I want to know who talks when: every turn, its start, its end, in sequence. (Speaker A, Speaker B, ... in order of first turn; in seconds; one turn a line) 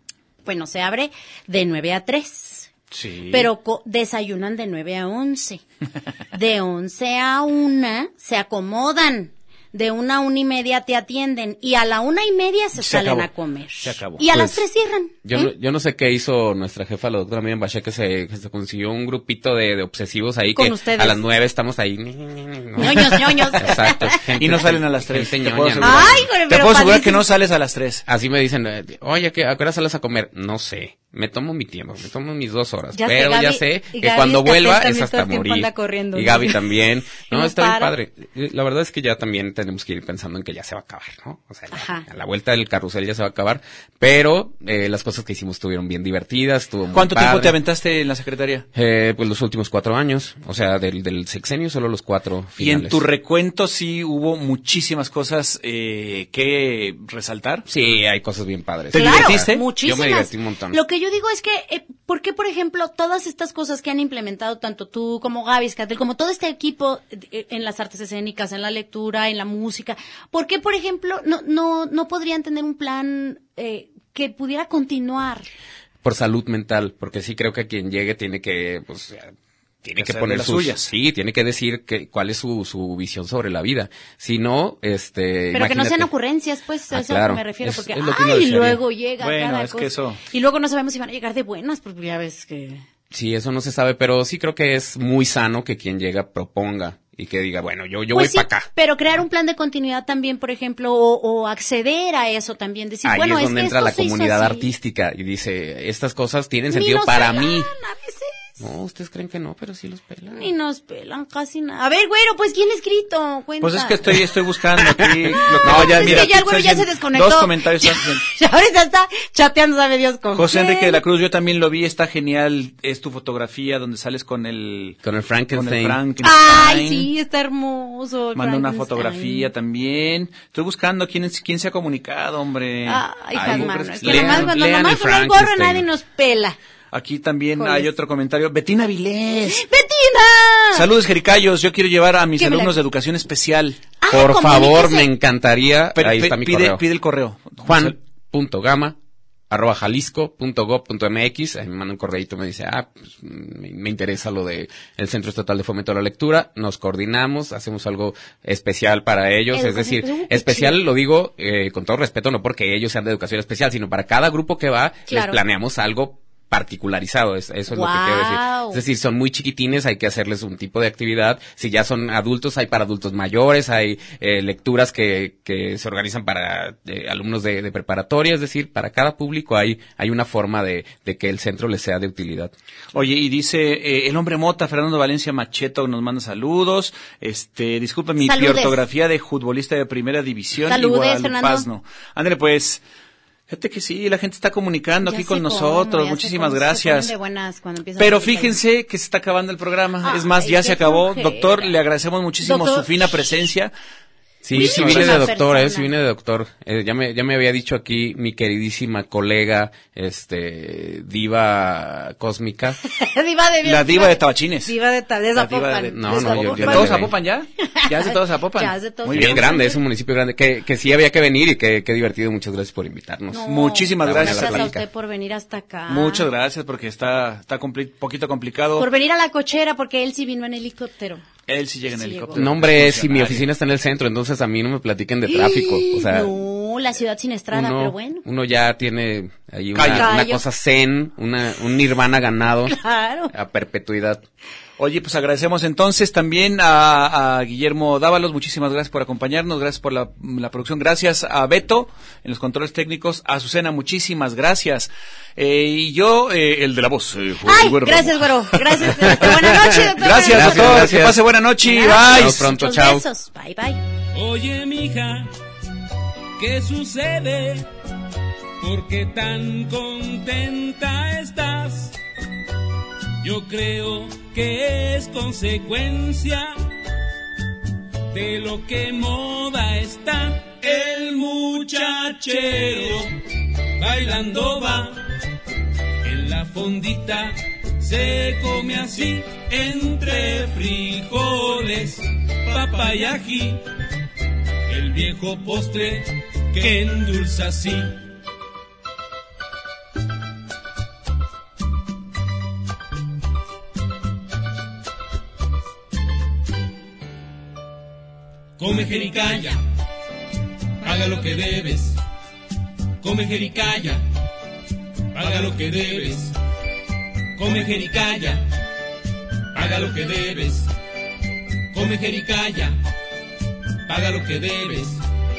Speaker A: 0.4-2.7
Speaker B: 2.9-3.5
Speaker A: 3.3-5.6
Speaker A: 6.3-15.5
Speaker B: 12.7-14.2
Speaker C: 14.3-14.6
Speaker C: 15.2-26.3
Speaker A: 20.5-21.2
Speaker A: 22.8-24.2
Speaker B: 24.3-28.0
Speaker A: 25.8-27.2
Speaker C: 28.1-47.6
Speaker A: 32.9-36.6
Speaker A: 37.3-37.9
Speaker A: 41.7-42.0
Speaker B: 46.9-48.6
Speaker C: 48.7-53.0
Speaker B: 52.6-57.6
Speaker C: 57.7-60.8
Speaker B: 58.9-59.6
Speaker A: 58.9-75.5
Speaker C: 76.0-79.3
Speaker C: 79.8-86.1
Speaker B: 80.0-80.9
Speaker A: 85.5-92.8
Speaker C: 86.9-88.8
Speaker B: 89.2-90.2
Speaker C: 93.1-98.7
Speaker A: 98.1-104.7
Speaker C: 103.0-107.7
Speaker A: 106.7-108.6
Speaker C: 108.6-110.5
Speaker A: 110.3-114.1
Speaker B: 113.6-118.2
Speaker C: 115.6-116.3
Speaker A: 115.6-121.0
Speaker B: 120.3-125.0
Speaker C: 125.0-126.0
Speaker B: 125.5-127.1
Speaker A: 126.2-129.5
Speaker B: 128.3-134.5
Speaker A: 132.8-136.6
Speaker C: 133.3-135.9
Speaker B: 136.9-139.6
Speaker A: 137.6-137.9
Speaker A: 139.5-140.8
Speaker B: 140.7-143.8
Speaker A: 142.4-142.7
Speaker A: 144.0-145.1
Speaker C: 144.1-146.8
Speaker B: 145.9-147.9
Speaker C: 147.6-149.0
Speaker C: 149.5-182.5
Speaker A: 159.5-160.8
Speaker A: 165.1-165.4
Speaker A: 167.7-168.8
Speaker B: 182.9-192.8
Speaker A: 188.2-188.8
Speaker A: 190.7-191.7
Speaker B: 193.5-197.1
Speaker A: 195.0-198.6
Speaker B: 198.0-203.7
Speaker A: 200.0-201.7
Speaker A: 202.4-202.9
Speaker C: 204.4-212.8
Speaker B: 204.5-205.2
Speaker A: 204.5-205.9
Speaker A: 212.8-219.8
Speaker B: 213.6-214.7
Speaker B: 215.3-219.4
Speaker C: 215.9-217.1
Speaker C: 219.1-224.8
Speaker A: 223.3-226.3
Speaker B: 223.4-224.7
Speaker B: 225.9-228.9
Speaker A: 228.8-231.2
Speaker B: 231.5-233.4
Speaker A: 231.9-232.4
Speaker C: 232.3-236.3
Speaker A: 235.3-238.2
Speaker C: 237.5-242.7
Speaker B: 239.7-240.1
Speaker A: 239.9-240.4
Speaker A: 242.7-243.3
Speaker C: 243.3-244.2
Speaker B: 244.8-262.5
Speaker A: 257.4-261.0
Speaker C: 259.1-259.5
Speaker C: 260.3-263.0
Speaker A: 261.6-263.8
Speaker D: 264.1-265.3
Speaker D: 266.4-267.7
Speaker D: 268.6-271.9
Speaker D: 273.2-276.6
Speaker D: 278.1-283.1
Speaker D: 283.8-285.0
Speaker D: 286.0-293.6
Speaker D: 294.7-298.0
Speaker D: 308.6-309.6
Speaker D: 310.8-312.0
Speaker D: 313.0-314.0
Speaker D: 315.1-316.3
Speaker D: 317.4-318.4
Speaker D: 319.5-320.7
Speaker D: 321.7-322.8
Speaker D: 323.9-325.0